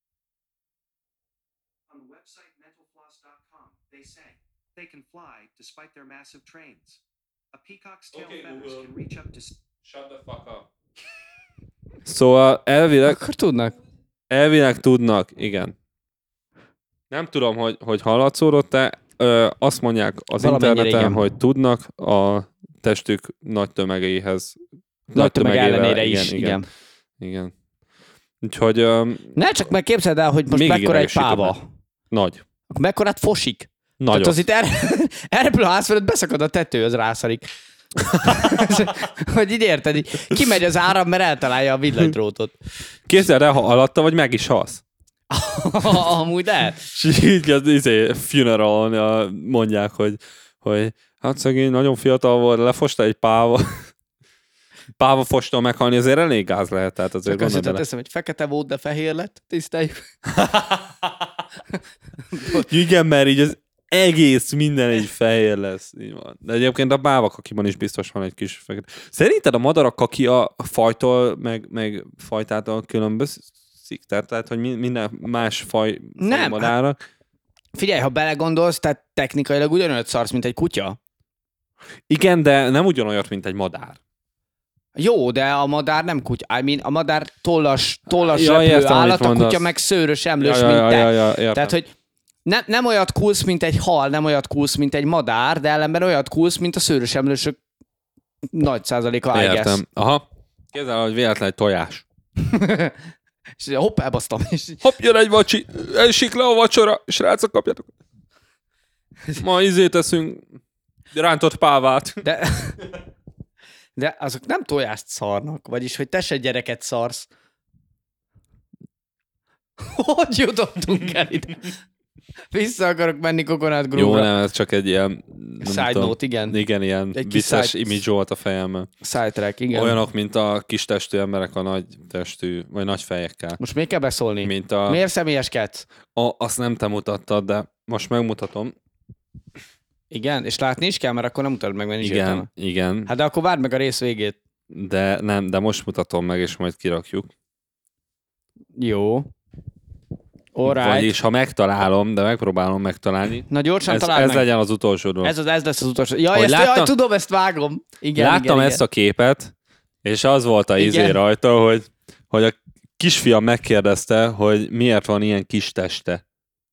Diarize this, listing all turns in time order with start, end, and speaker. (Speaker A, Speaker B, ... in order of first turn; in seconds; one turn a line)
Speaker A: 1.9-7.0
Speaker A: 7.5-9.6
Speaker B: 8.1-8.9
Speaker B: 9.8-10.7
Speaker B: 12.1-13.2
Speaker C: 13.1-13.8
Speaker B: 14.3-15.8
Speaker B: 17.1-24.6
Speaker C: 20.4-21.3
Speaker B: 25.1-26.6
Speaker C: 25.1-26.6
Speaker B: 27.2-27.5
Speaker B: 28.4-29.3
Speaker C: 29.4-31.7
Speaker B: 30.5-31.6
Speaker B: 32.1-32.4
Speaker C: 32.7-37.5
Speaker B: 34.0-34.4
Speaker C: 38.1-42.5
Speaker B: 38.1-38.9
Speaker B: 43.1-44.8
Speaker C: 45.3-46.9
Speaker B: 46.9-53.9
Speaker B: 55.0-57.8
Speaker C: 57.3-60.1
Speaker B: 60.3-61.2
Speaker C: 62.3-62.7
Speaker B: 62.5-77.0
Speaker C: 76.2-76.7
Speaker C: 77.8-81.0
Speaker B: 82.1-84.0
Speaker C: 85.0-91.9
Speaker B: 88.1-89.7
Speaker B: 90.4-91.7
Speaker C: 92.5-97.6
Speaker C: 98.5-99.8
Speaker B: 99.3-102.0
Speaker C: 102.4-103.0
Speaker C: 103.6-104.8
Speaker B: 104.8-107.9
Speaker B: 109.4-110.5
Speaker B: 111.1-112.2
Speaker C: 112.2-112.8
Speaker C: 114.0-117.3
Speaker C: 119.8-121.8
Speaker C: 122.5-124.3
Speaker B: 124.0-128.9
Speaker C: 125.6-126.6
Speaker C: 127.2-128.0
Speaker C: 129.0-130.0
Speaker B: 129.7-133.6
Speaker C: 133.6-135.9
Speaker B: 134.4-135.0
Speaker B: 136.2-138.7
Speaker C: 140.1-142.5
Speaker B: 142.0-143.1
Speaker C: 143.1-144.4
Speaker B: 144.7-147.3
Speaker C: 148.8-149.3
Speaker C: 150.5-151.1
Speaker B: 150.6-155.3
Speaker C: 153.5-154.5
Speaker C: 155.2-158.8
Speaker B: 156.3-156.9
Speaker B: 158.2-159.5
Speaker B: 160.0-166.2
Speaker C: 160.8-161.2